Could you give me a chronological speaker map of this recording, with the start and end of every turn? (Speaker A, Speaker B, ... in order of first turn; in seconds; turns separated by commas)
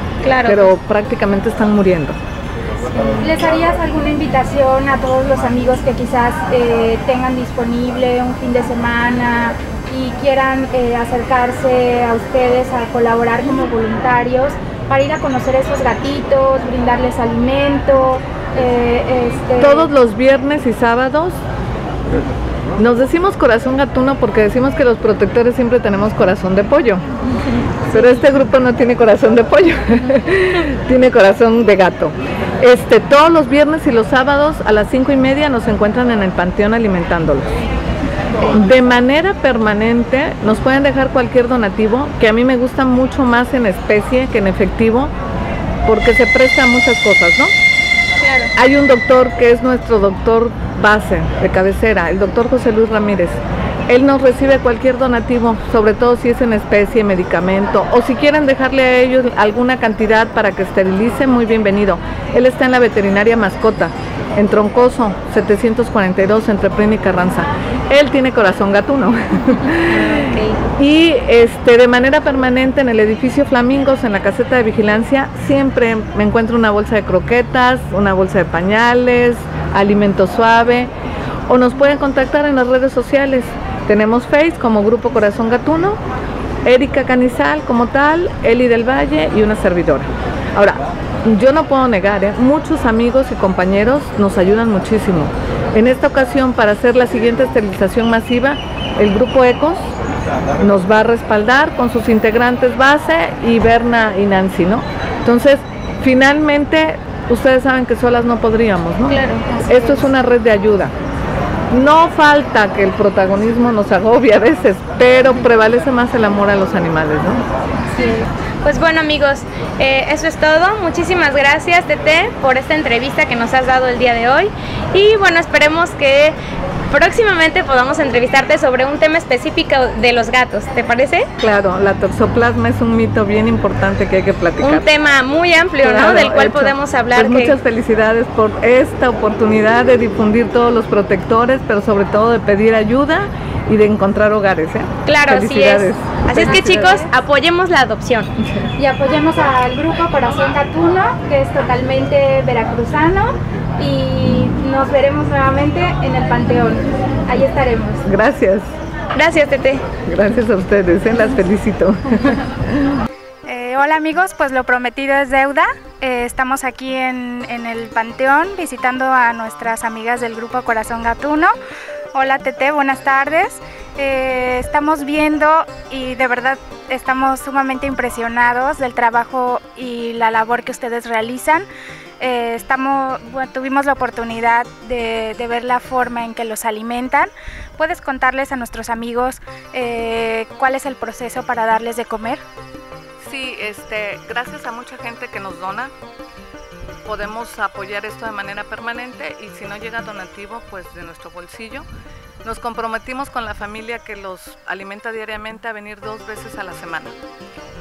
Speaker A: 0.2-0.7, Speaker B: 0.4-2.2, Speaker A: 3.0-3.3, Speaker C: 3.2-19.9, Speaker B: 19.6-21.4, Speaker B: 22.8-27.0, Speaker B: 27.9-37.5, Speaker B: 38.5-45.1, Speaker B: 45.8-47.5, Speaker A: 48.2-48.5, Speaker B: 48.5-70.2, Speaker A: 69.9-70.6, Speaker B: 70.8-80.9, Speaker B: 81.5-86.0, Speaker B: 86.6-99.9, Speaker B: 100.6-110.9, Speaker A: 109.1-110.1, Speaker B: 111.7-117.4, Speaker A: 117.9-126.4, Speaker A: 126.9-131.3, Speaker B: 131.4-134.8, Speaker A: 134.6-137.6, Speaker B: 135.8-147.0, Speaker A: 145.0-148.3, Speaker C: 146.4-147.1, Speaker C: 148.8-158.0, Speaker B: 158.0-158.7, Speaker A: 159.1-159.9, Speaker B: 160.0-163.0, Speaker C: 163.4-171.5, Speaker C: 172.1-181.7, Speaker C: 182.2-192.4, Speaker B: 193.2-195.9, Speaker B: 197.0-201.9, Speaker B: 202.4-207.1